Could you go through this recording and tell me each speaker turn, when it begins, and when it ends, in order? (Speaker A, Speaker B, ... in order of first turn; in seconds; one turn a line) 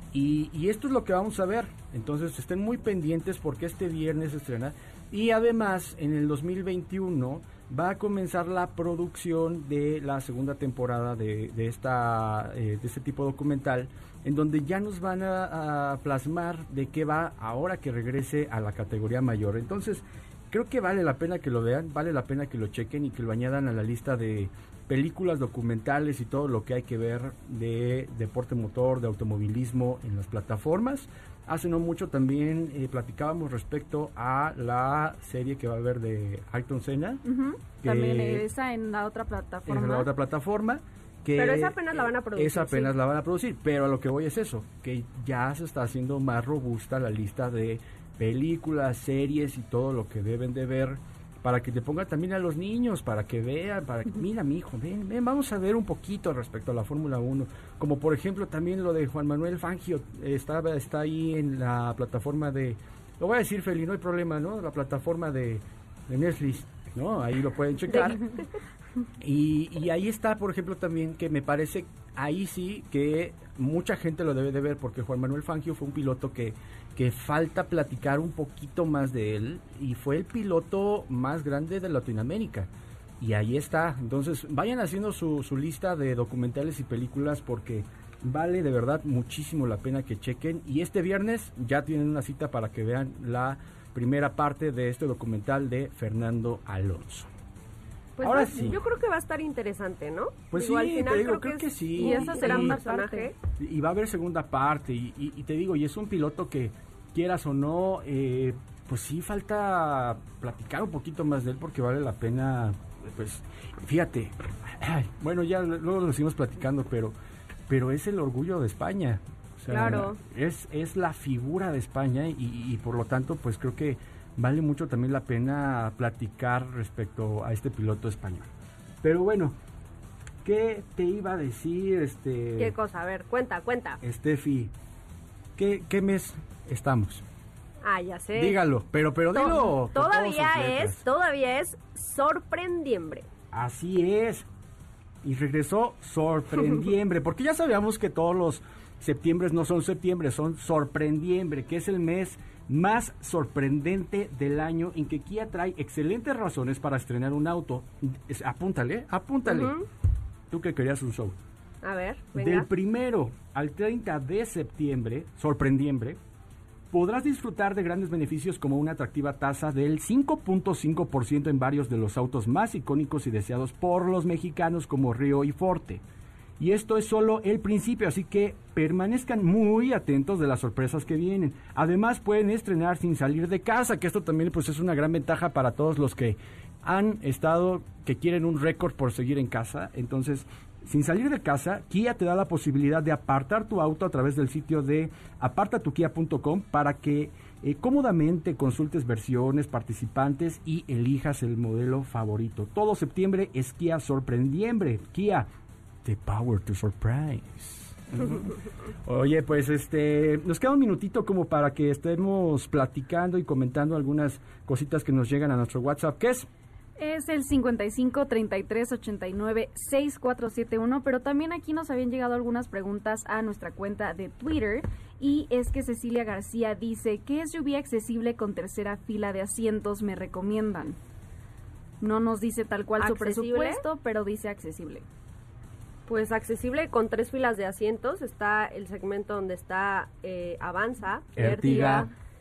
Speaker A: 0.1-37.2
Speaker B: 37.3-40.1
Speaker A: 37.8-38.5
Speaker A: 39.7-68.2
Speaker C: 41.4-42.9
Speaker A: 69.2-82.7
Speaker A: 83.2-97.3
Speaker C: 98.2-103.3
Speaker A: 98.2-98.8
Speaker A: 100.5-102.8
Speaker B: 102.0-103.3
Speaker A: 103.5-117.2
Speaker A: 117.7-128.5
Speaker C: 119.7-120.2
Speaker A: 129.0-129.6
Speaker A: 130.4-132.8
Speaker C: 132.6-134.0
Speaker A: 134.0-134.7
Speaker A: 135.6-137.2
Speaker C: 137.8-138.6
Speaker A: 138.3-141.0
Speaker C: 139.3-143.3
Speaker A: 143.5-144.5
Speaker A: 145.2-159.7
Speaker C: 159.4-159.9
Speaker A: 160.5-161.3
Speaker C: 161.8-162.7
Speaker A: 162.3-166.2
Speaker A: 166.9-176.0
Speaker A: 176.6-205.5
Speaker A: 206.1-216.5
Speaker B: 217.0-231.0
Speaker B: 232.0-235.1
Speaker C: 233.0-233.8
Speaker C: 236.1-242.1
Speaker A: 241.4-242.1